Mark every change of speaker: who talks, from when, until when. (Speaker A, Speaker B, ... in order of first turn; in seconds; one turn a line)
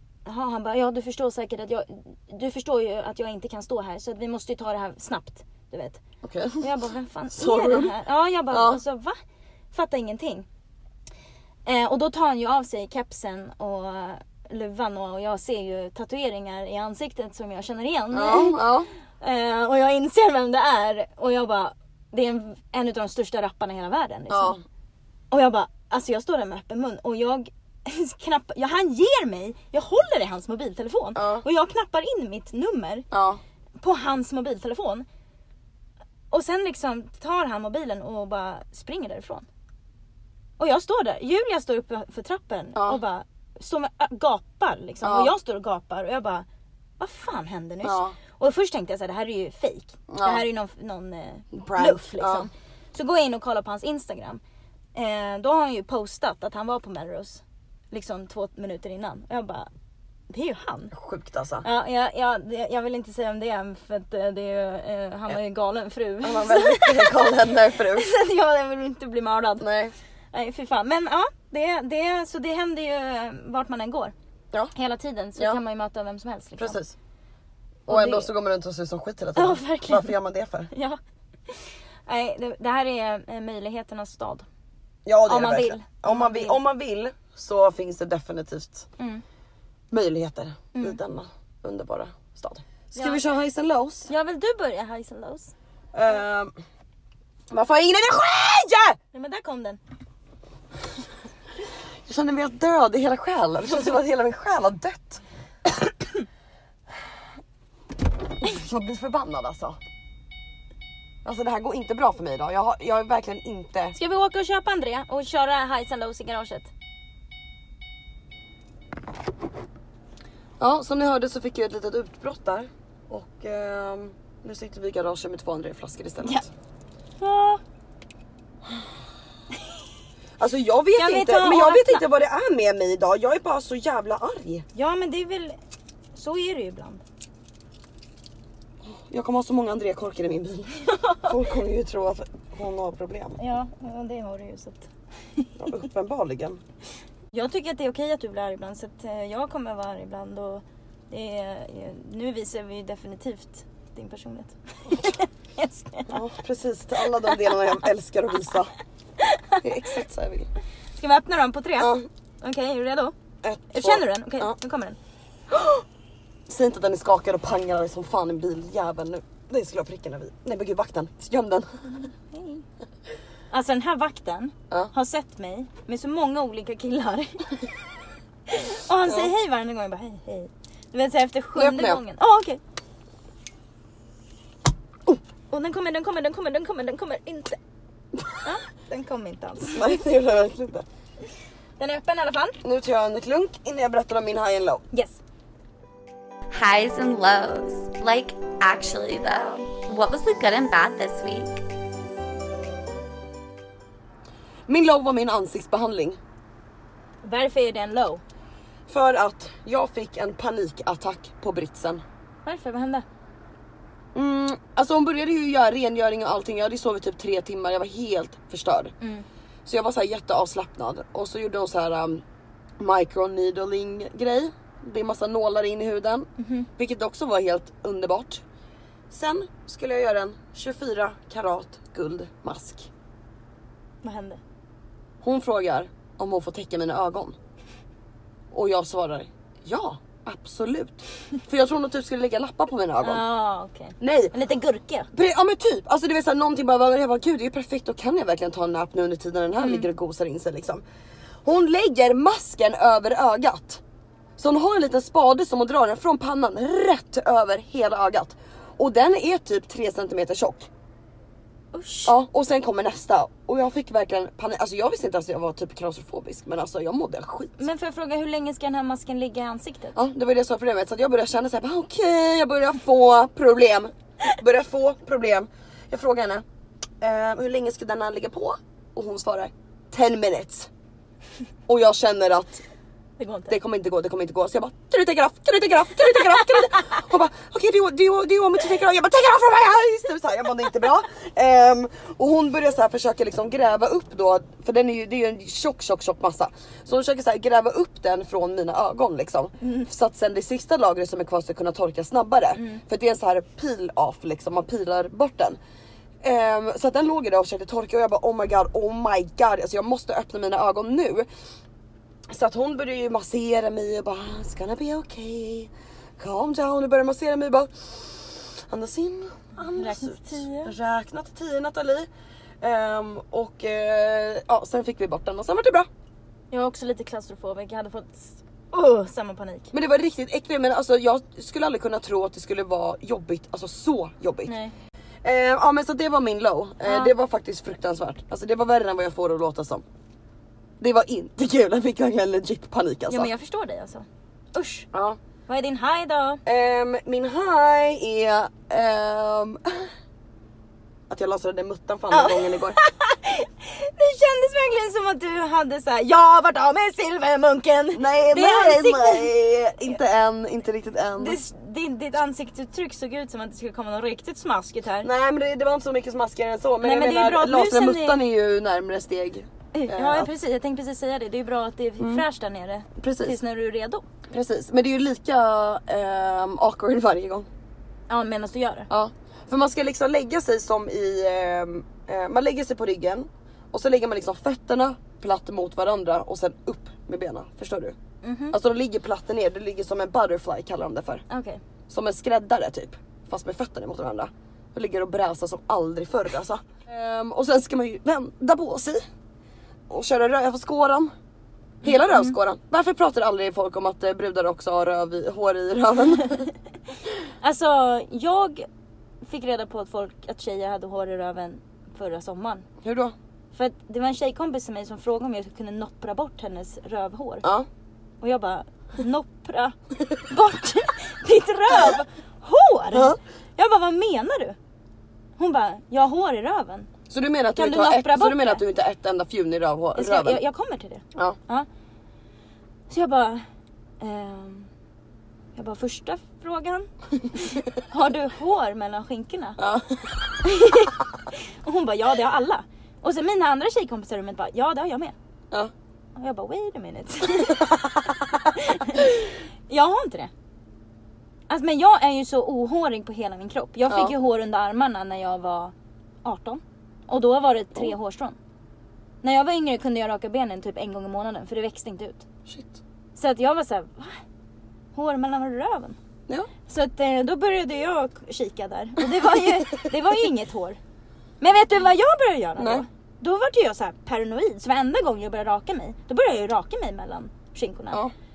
Speaker A: 0.2-6.0
Speaker B: 6.2-6.7
Speaker A: 6.6-9.2
Speaker B: 7.3-8.0
Speaker B: 8.5-8.8
Speaker A: 9.7-10.5
Speaker A: 11.7-24.6
Speaker B: 18.1-18.9
Speaker B: 24.3-24.6
Speaker A: 25.3-33.1
Speaker B: 31.1-31.4
Speaker B: 33.1-33.4
Speaker A: 33.8-35.1
Speaker A: 36.3-39.5
Speaker A: 40.6-46.5
Speaker B: 42.8-43.0
Speaker B: 45.0-45.3
Speaker A: 47.0-54.4
Speaker B: 47.8-48.1
Speaker B: 50.1-50.5
Speaker B: 51.5-52.5
Speaker A: 55.0-59.7
Speaker A: 60.3-60.9
Speaker B: 60.9-61.6
Speaker A: 61.6-69.7
Speaker B: 66.2-68.1
Speaker B: 69.6-70.0
Speaker A: 70.3-74.1
Speaker A: 74.7-76.8
Speaker B: 76.6-77.0
Speaker A: 77.9-78.3
Speaker B: 77.9-80.7
Speaker A: 79.4-80.1
Speaker A: 80.7-81.0
Speaker A: 81.5-84.5
Speaker B: 85.0-88.9
Speaker A: 85.3-86.6
Speaker A: 89.0-89.2
Speaker B: 89.9-94.1
Speaker A: 93.0-93.2
Speaker A: 94.1-95.5
Speaker B: 95.9-96.5
Speaker B: 97.5-99.0
Speaker A: 99.1-99.8
Speaker B: 102.1-105.2
Speaker B: 108.4-109.8
Speaker B: 111.2-114.0
Speaker A: 114.0-116.7
Speaker B: 120.6-126.5
Speaker A: 127.2-127.6
Speaker B: 130.4-134.7
Speaker A: 131.0-132.0
Speaker A: 134.7-135.6
Speaker A: 136.1-137.0
Speaker B: 138.8-143.4
Speaker A: 143.4-145.5
Speaker B: 145.6-146.6
Speaker A: 147.3-156.2
Speaker B: 156.1-158.7
Speaker A: 159.2-159.6
Speaker B: 159.6-160.5
Speaker A: 161.0-163.1
Speaker B: 161.8-162.1
Speaker B: 163.4-164.6
Speaker A: 163.7-165.0
Speaker B: 165.5-165.8
Speaker B: 166.5-172.0
Speaker A: 172.3-172.6
Speaker A: 173.5-177.5
Speaker A: 178.5-182.6
Speaker B: 179.1-179.3
Speaker B: 181.6-182.0
Speaker A: 185.5-187.6
Speaker A: 188.4-190.0
Speaker B: 189.7-190.9
Speaker A: 191.8-192.6
Speaker B: 192.6-194.8
Speaker A: 194.9-195.2
Speaker C: 196.5-201.6
Speaker B: 204.7-206.2
Speaker A: 207.2-208.2
Speaker B: 208.9-212.0
Speaker A: 212.4-213.1
Speaker B: 214.2-218.9
Speaker A: 219.0-219.3
Speaker B: 219.7-222.2
Speaker B: 222.8-228.4
Speaker A: 226.4-226.7
Speaker B: 229.1-232.9
Speaker A: 234.0-234.4
Speaker B: 235.2-237.4
Speaker B: 238.5-243.2
Speaker A: 243.0-245.1
Speaker B: 244.0-244.3
Speaker B: 245.1-250.8
Speaker A: 249.6-249.9
Speaker B: 251.4-253.8
Speaker B: 254.4-260.7
Speaker A: 261.7-262.2
Speaker B: 262.1-267.6
Speaker A: 267.6-269.9
Speaker B: 269.9-276.4
Speaker B: 277.0-280.7
Speaker B: 281.7-282.6
Speaker A: 283.2-283.5
Speaker B: 283.5-305.6
Speaker A: 299.6-299.9
Speaker A: 302.6-302.8
Speaker B: 306.2-311.3
Speaker B: 312.3-322.1
Speaker A: 319.6-320.7
Speaker B: 322.6-325.9
Speaker A: 326.5-329.7
Speaker B: 329.7-334.6
Speaker A: 334.4-334.7
Speaker B: 335.2-339.8
Speaker A: 336.8-337.1
Speaker B: 340.8-343.3
Speaker A: 343.1-344.9
Speaker B: 344.9-345.2
Speaker A: 345.5-346.4
Speaker B: 346.5-349.9
Speaker B: 351.1-352.8
Speaker A: 352.1-359.3
Speaker B: 357.9-361.4
Speaker A: 361.2-365.1
Speaker B: 365.0-370.3
Speaker A: 366.8-368.2
Speaker A: 369.7-374.1
Speaker B: 372.0-372.2
Speaker B: 373.0-373.4
Speaker B: 374.3-377.5
Speaker A: 378.1-378.9
Speaker B: 378.9-388.0
Speaker A: 388.2-388.6
Speaker B: 388.5-391.2
Speaker A: 391.3-391.6
Speaker B: 391.9-399.0
Speaker B: 399.9-401.1
Speaker B: 401.8-406.5
Speaker A: 401.8-402.4
Speaker A: 407.4-408.7
Speaker A: 409.2-412.7
Speaker B: 412.8-413.1
Speaker A: 413.5-417.4
Speaker A: 418.2-419.8
Speaker A: 420.3-424.6
Speaker B: 422.9-423.2
Speaker A: 425.4-426.9
Speaker B: 427.1-430.4
Speaker A: 427.6-428.6
Speaker A: 429.9-431.7
Speaker A: 432.9-433.4
Speaker A: 434.0-434.7
Speaker A: 435.6-439.6
Speaker B: 439.6-440.3
Speaker A: 440.4-441.0
Speaker A: 441.6-445.1
Speaker A: 446.2-450.3
Speaker B: 447.5-447.9
Speaker A: 451.5-458.4
Speaker B: 453.9-454.1
Speaker A: 459.2-462.3
Speaker B: 462.5-462.8
Speaker A: 463.2-464.2
Speaker A: 464.9-466.0
Speaker A: 466.7-470.8
Speaker A: 471.4-478.0
Speaker B: 472.6-472.9